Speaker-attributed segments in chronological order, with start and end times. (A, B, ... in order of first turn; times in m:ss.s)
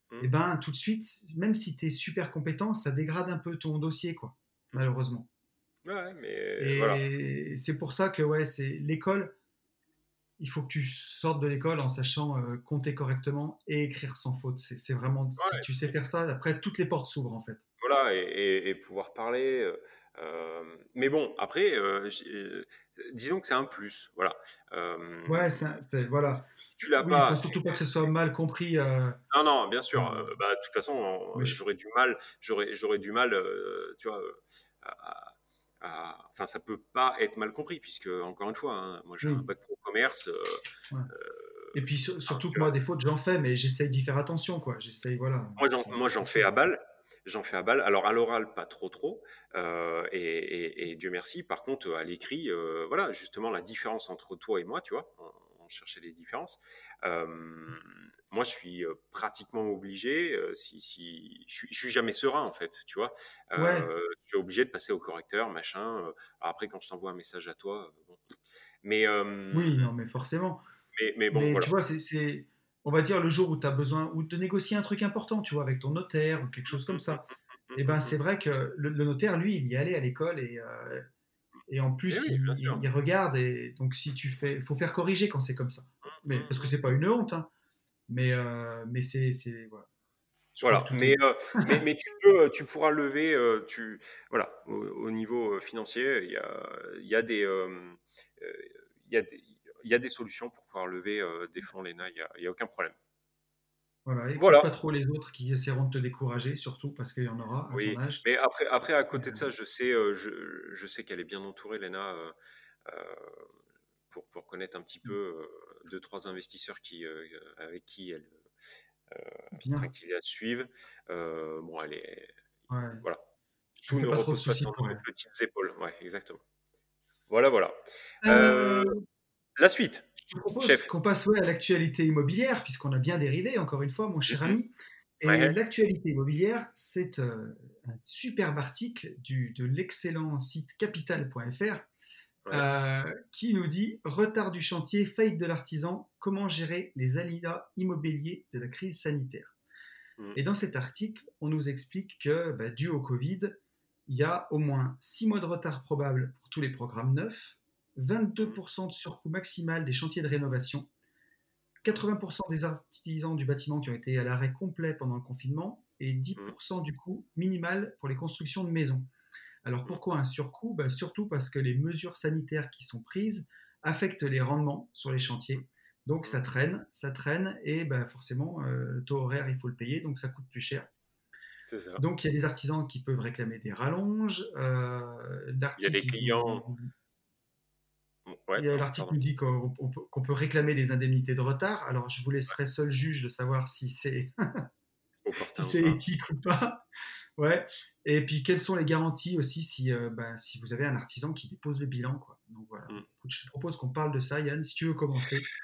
0:00.2-0:05.3 A
0:05.8-0:07.0 B
0:06.6-0:09.3 A
0:10.4-0:17.6 A
0:15.4-0:15.7 B
0:17.8-0:25.6 B
0:25.3-0:26.5 A
0:26.6-0:27.8 B
0:27.0-0:29.2 A
0:29.3-0:41.7 B
0:29.9-0:30.3 A
0:39.2-0:39.5 A
0:41.7-0:46.5 A
0:42.3-0:42.7 B
0:45.6-1:08.3 B
1:03.6-1:03.9 A
1:08.8-1:09.9 B
1:09.5-1:10.6 A
1:10.9-1:11.7 B
1:11.3-1:17.2 A
1:16.7-1:18.2 B
1:17.7-1:21.1 A
1:21.7-1:27.5 A
1:22.1-1:22.8 B
1:26.0-1:26.7 B
1:28.1-1:29.9 A
1:30.5-1:31.8 A
1:30.6-1:42.9 B
1:44.0-1:48.2 A
1:44.4-1:44.6 B
1:47.7-1:53.5 B
1:49.1-1:49.4 A
1:54.1-1:58.4 B
1:59.1-2:02.3 B
1:59.6-1:59.9 A
2:02.7-2:03.0 A
2:03.8-2:06.4 B
2:03.9-2:05.0 A
2:07.3-2:08.9 B
2:08.2-2:09.0 A
2:09.6-2:10.9 B
2:10.3-2:21.8 A
2:14.3-2:14.5 B
2:15.2-2:15.6 B
2:22.5-2:29.5 A
2:30.3-2:40.9 A
2:41.8-2:49.1 A
2:49.6-3:00.9 A
3:01.7-3:02.0 B
3:02.0-3:06.9 A
3:05.8-3:06.6 B
3:08.2-3:09.2 B
3:08.6-3:14.6 A
3:15.2-3:16.0 B
3:15.6-3:16.8 A
3:17.4-3:25.5 A